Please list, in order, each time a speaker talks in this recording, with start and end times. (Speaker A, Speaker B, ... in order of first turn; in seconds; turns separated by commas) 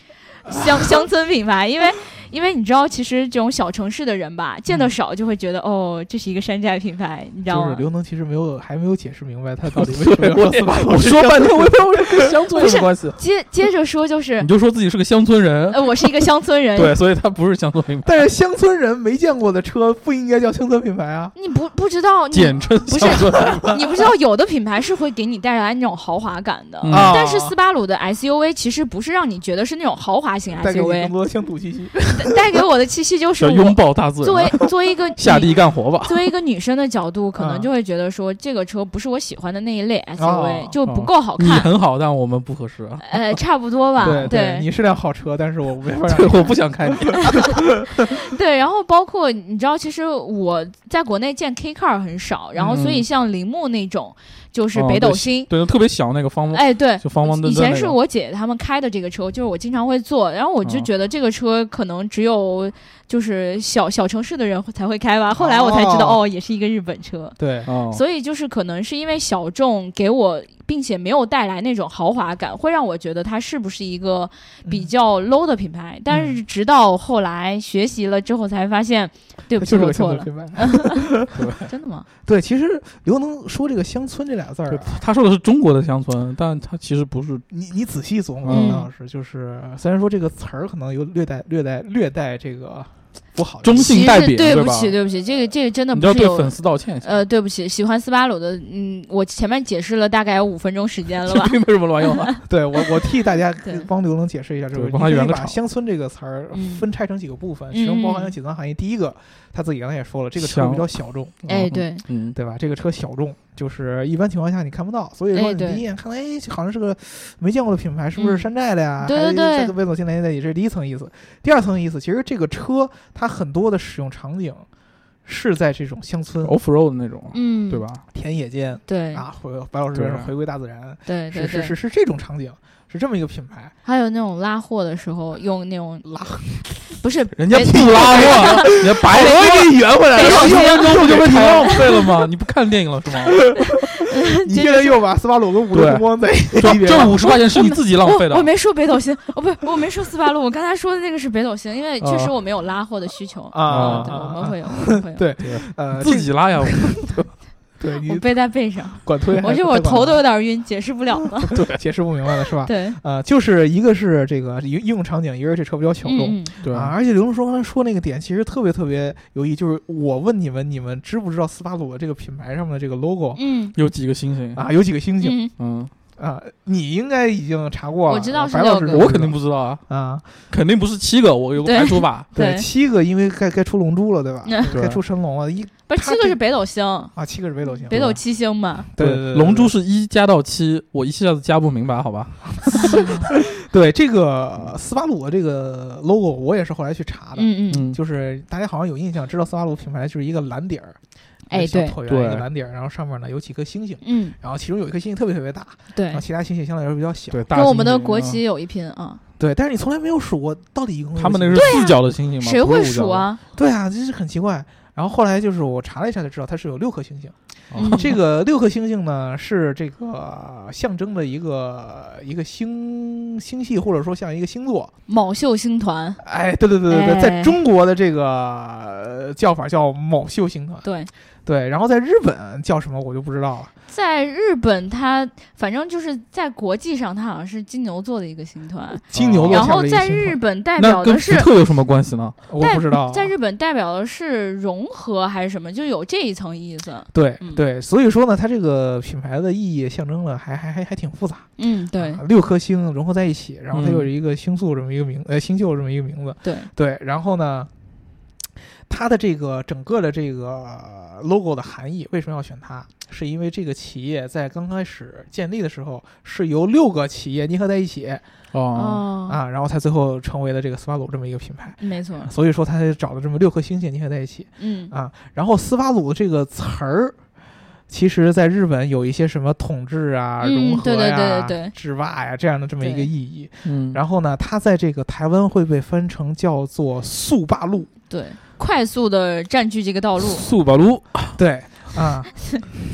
Speaker A: 0.4-7.8, Speaker B: 0.5-1.1, Speaker B: 7.5-12.3, Speaker C: 9.7-13.2, Speaker A: 12.5-14.5, Speaker C: 14.4-16.2, Speaker A: 15.7-16.9, Speaker C: 16.7-18.2, Speaker B: 18.0-21.3, Speaker A: 21.3-31.1, Speaker C: 22.3-23.8, Speaker B: 23.1-23.8, Speaker C: 26.8-27.1, Speaker B: 26.9-27.5, Speaker B: 30.6-32.3, Speaker A: 32.2-41.7, Speaker C: 33.4-36.3, Speaker B: 37.4-37.7, Speaker B: 40.2-40.8, Speaker C: 40.9-43.4, Speaker A: 43.0-44.6, Speaker C: 44.0-44.3, Speaker B: 44.0-48.1, Speaker C: 46.0-47.2, Speaker A: 48.1-55.5, Speaker C: 52.7-53.0, Speaker C: 54.7-58.0, Speaker A: 56.5-67.4, Speaker B: 65.3-66.2, Speaker B: 67.4-67.7, Speaker C: 67.7-68.0, Speaker A: 67.9-81.1, Speaker B: 76.1-76.4, Speaker B: 79.6-81.5, Speaker C: 81.3-81.6, Speaker A: 81.7-82.0, Speaker B: 82.2-85.0, Speaker C: 84.7-87.5, Speaker B: 87.5-94.0, Speaker C: 88.4-88.8, Speaker A: 88.5-88.9, Speaker C: 93.6-95.0, Speaker A: 93.8-101.5, Speaker C: 95.9-97.2, Speaker C: 101.2-102.4, Speaker B: 102.5-111.4, Speaker C: 104.7-105.5, Speaker A: 106.5-106.8, Speaker A: 107.7-108.3, Speaker C: 110.4-112.3, Speaker A: 111.5-112.0, Speaker B: 112.3-124.7, Speaker A: 115.3-115.8, Speaker A: 118.2-118.5, Speaker A: 119.0-119.7, Speaker B: 125.2-126.5, Speaker C: 126.4-128.0, Speaker A: 127.3-127.8, Speaker B: 128.1-133.7, Speaker A: 128.9-129.2, Speaker C: 129.9-130.3, Speaker A: 131.1-131.7, Speaker A: 133.8-136.1, Speaker B: 136.0-137.0, Speaker A: 137.0-139.5, Speaker C: 137.4-143.5, Speaker B: 137.5-141.9, Speaker A: 140.1-142.1, Speaker A: 143.9-145.0, Speaker B: 144.4-147.2, Speaker C: 145.7-148.5, Speaker A: 146.6-155.2, Speaker C: 152.0-152.3, Speaker B: 153.5-157.0, Speaker C: 153.7-154.3, Speaker C: 155.4-157.3, Speaker B: 157.8-158.3, Speaker A: 158.0-161.5, Speaker B: 158.9-160.2, Speaker B: 161.4-173.4, Speaker C: 161.5-161.8, Speaker A: 162.6-163.0, Speaker A: 166.0-166.5, Speaker C: 166.6-166.9, Speaker A: 173.3-173.7, Speaker C: 173.7-174.7, Speaker B: 174.5-175.4, Speaker A: 175.2-175.5, Speaker C: 175.6-175.9, Speaker B: 176.2-179.4, Speaker A: 178.1-179.1, Speaker C: 178.9-179.8, Speaker B: 179.9-180.3, Speaker C: 180.5-182.3, Speaker A: 181.6-182.7, Speaker B: 182.3-186.4, Speaker A: 184.4-184.7, Speaker C: 184.7-185.0, Speaker A: 185.9-187.1, Speaker B: 187.1-188.2, Speaker A: 187.9-188.9, Speaker C: 187.9-188.2, Speaker B: 188.9-189.7, Speaker C: 188.9-193.0, Speaker B: 192.6-201.0, Speaker A: 192.7-193.3, Speaker A: 197.3-197.9, Speaker C: 197.7-198.0, Speaker A: 201.5-201.9, Speaker B: 201.5-207.5, Speaker C: 202.1-202.4, Speaker A: 204.0-204.3, Speaker A: 205.9-206.2, Speaker C: 207.3-208.4, Speaker A: 207.5-209.2, Speaker B: 209.4-211.8, Speaker C: 211.2-213.3, Speaker A: 211.5-213.4, Speaker B: 213.5-224.9, Speaker C: 217.7-218.2, Speaker A: 217.8-218.1, Speaker A: 225.1-226.2, Speaker B: 226.2-230.8, Speaker A: 226.9-227.5, Speaker A: 230.8-231.1, Speaker B: 231.4-233.7, Speaker A: 233.9-241.5, Speaker B: 239.1-240.4, Speaker C: 239.1-239.7, Speaker C: 240.8-242.4, Speaker B: 242.5-243.3, Speaker A: 242.6-247.6, Speaker B: 247.1-257.7, Speaker A: 251.6-252.2, Speaker C: 253.7-254.1, Speaker A: 256.4-256.7, Speaker B: 258.9-268.2, Speaker C: 268.5-269.0, Speaker A: 268.7-269.4, Speaker B: 269.3-277.1, Speaker A: 271.8-272.3, Speaker A: 274.6-274.9, Speaker B: 277.9-287.9, Speaker A: 280.4-281.7, Speaker A: 282.8-283.1, Speaker C: 283.6-284.0, Speaker A: 288.1-290.4, Speaker C: 290.2-291.3, Speaker B: 291.4-292.3